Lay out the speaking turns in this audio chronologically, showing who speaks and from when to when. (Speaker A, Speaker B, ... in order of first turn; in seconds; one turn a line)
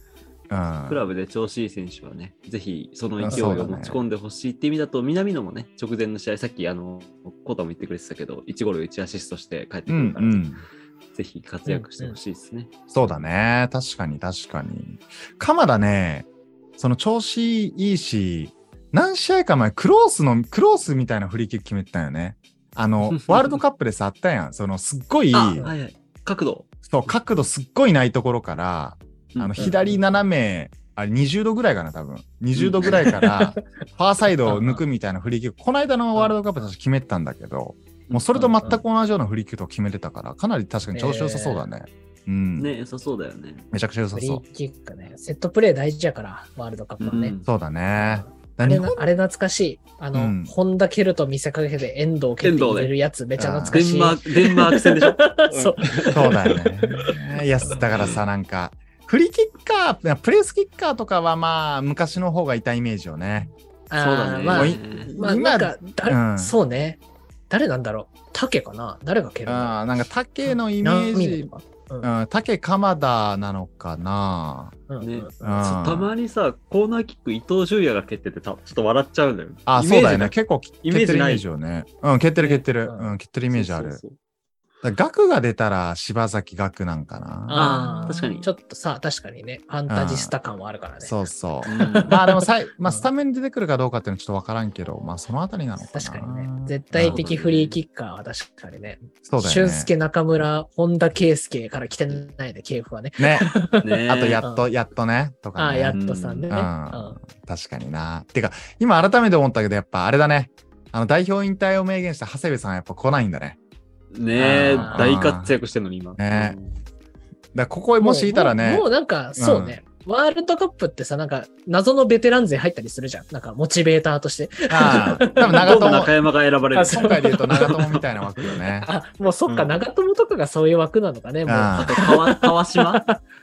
Speaker A: 0.5-1.1
Speaker B: 0.9-10.4
Speaker A: 3.2-4.0
Speaker C: 3.2-3.8
Speaker A: 9.9-10.6
Speaker B: 11.1-12.7
Speaker C: 11.7-12.2
Speaker A: 12.9-16.3
Speaker A: 16.8-25.7
Speaker B: 23.2-23.6
Speaker B: 25.3-27.1
Speaker A: 26.9-42.7
Speaker B: 29.4-29.8
Speaker C: 29.6-30.0
Speaker B: 32.5-33.3
Speaker C: 34.5-34.8
Speaker B: 38.1-38.5
Speaker C: 38.3-38.8
Speaker C: 40.9-41.6
Speaker B: 42.6-43.7
Speaker A: 43.7-44.4
Speaker C: 44.1-47.4
Speaker B: 47.0-47.5
Speaker A: 47.5-49.0
Speaker C: 48.0-56.6
Speaker A: 50.1-50.5
Speaker B: 52.4-52.9
Speaker A: 53.4-53.8
Speaker B: 53.7-57.1
Speaker A: 56.1-63.5
Speaker C: 57.6-57.9
Speaker B: 57.8-58.2
Speaker C: 63.9-69.8
Speaker B: 64.0-65.2
Speaker A: 64.5-66.6
Speaker A: 69.5-71.5
Speaker C: 70.5-72.1
Speaker A: 72.0-74.8
Speaker C: 74.9-75.7
Speaker B: 75.0-81.4
Speaker A: 75.4-76.1
Speaker A: 79.7-84.0
Speaker C: 82.4-83.2
Speaker B: 83.5-84.2
Speaker A: 84.8-88.2
Speaker C: 87.5-93.1
Speaker B: 87.5-88.5
Speaker A: 89.9-90.3
Speaker A: 91.0-97.2
Speaker B: 91.7-92.2
Speaker C: 95.8-103.9
Speaker B: 97.0-97.8
Speaker A: 99.2-99.9
Speaker A: 103.2-103.6
Speaker B: 103.8-104.4
Speaker A: 104.1-113.6
Speaker C: 105.6-107.2
Speaker B: 105.9-106.5
Speaker B: 114.1-116.8
Speaker C: 114.4-115.1
Speaker A: 114.4-115.6
Speaker A: 116.2-116.6
Speaker A: 117.5-119.8
Speaker C: 118.0-126.0
Speaker A: 124.7-126.1
Speaker B: 124.9-128.6
Speaker C: 126.7-127.7
Speaker A: 126.9-128.9
Speaker C: 128.8-133.2
Speaker B: 129.5-129.8
Speaker A: 131.5-132.0
Speaker B: 131.8-133.1